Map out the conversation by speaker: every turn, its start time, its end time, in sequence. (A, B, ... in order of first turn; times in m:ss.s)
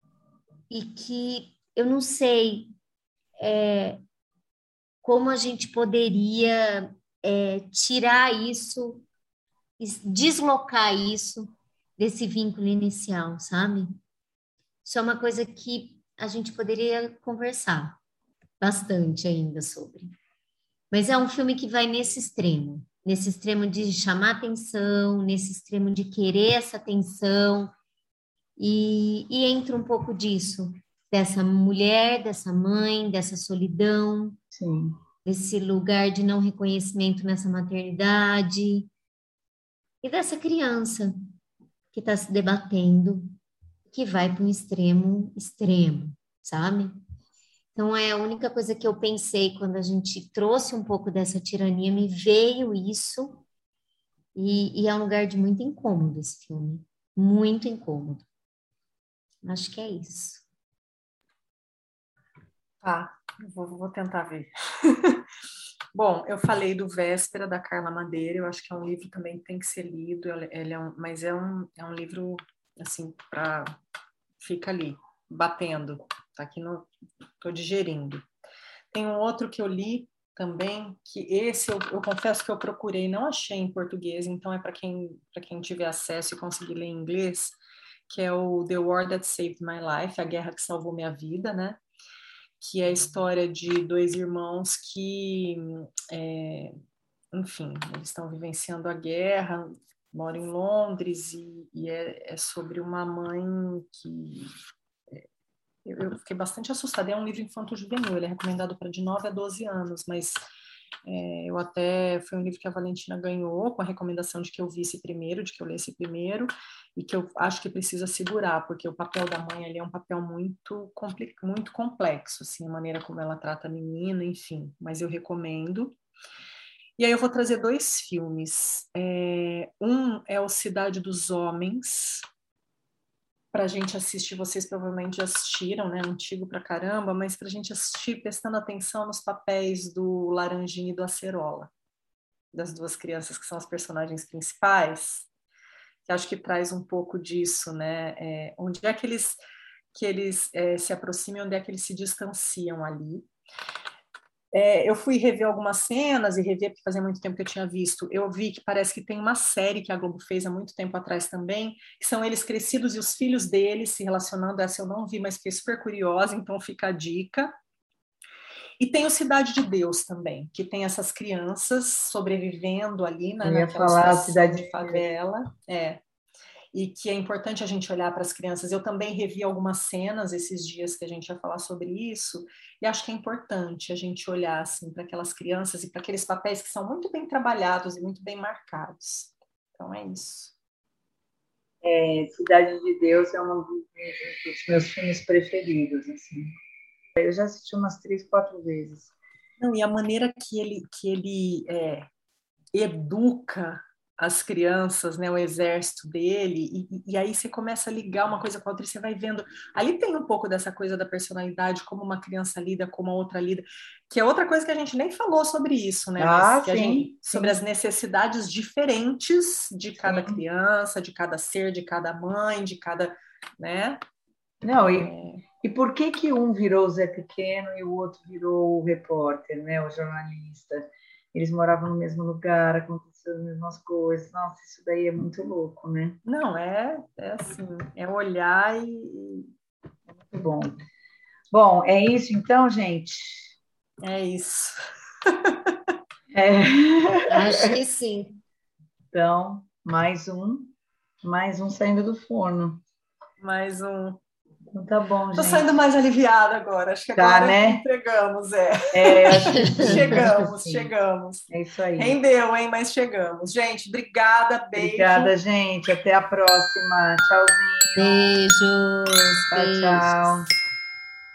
0:00.7-0:02.7 A
0:03.4-0:04.0 A
0:05.0-0:09.0 A
0:09.8-0:13.9 A
0:14.8-0:18.0 A
0:18.6-0:20.1 A
0:20.9-0:27.7 A
0:28.6-0:34.4 A
0:34.5-0:35.0 B
0:35.2-0:38.9 A
0:40.0-0:41.1 A
0:41.9-0:43.3 A
0:43.9-0:47.0 A
0:47.7-0:53.4 A
0:54.3-0:58.2 A
0:59.4-1:00.4 A
1:02.8-1:05.2 C
1:05.9-1:13.7 C
1:14.4-1:16.9 C
1:17.4-1:18.2 C
1:18.9-1:27.6 C
1:28.1-1:31.8 C
1:32.6-1:36.7 C
1:37.3-1:44.5 C
1:45.8-1:50.4 C
1:51.0-2:05.9 C
2:07.0-2:12.2 C
2:13.5-2:21.7 C
2:22.5-2:25.3 C
2:26.0-2:29.4 C
2:29.9-2:33.3 C
2:34.5-2:47.5 C
2:48.8-2:56.0 C
2:53.4-2:55.1 B
2:56.7-3:10.5 C
3:11.8-3:16.5 B
3:17.2-3:19.1 B
3:19.6-3:22.1 C
3:22.7-3:44.0 C
3:36.2-3:37.6 B
3:40.0-3:40.4 B
3:44.6-3:56.2 B
3:44.8-3:45.4 C
3:56.2-3:59.5 C
4:00.2-4:00.8 B
4:01.5-4:03.5 B
4:04.0-4:05.7 C
4:06.3-4:07.4 B
4:07.3-4:08.4 A
4:09.1-4:12.8 B
4:13.4-4:14.2 C
4:14.7-4:15.7 B
4:15.3-4:25.3 C
4:17.2-4:17.8 B
4:18.9-4:20.9 B
4:19.3-4:20.2 A
4:21.5-4:22.2 B
4:24.8-4:28.2 B
4:28.0-4:30.4 A
4:29.5-4:30.5 B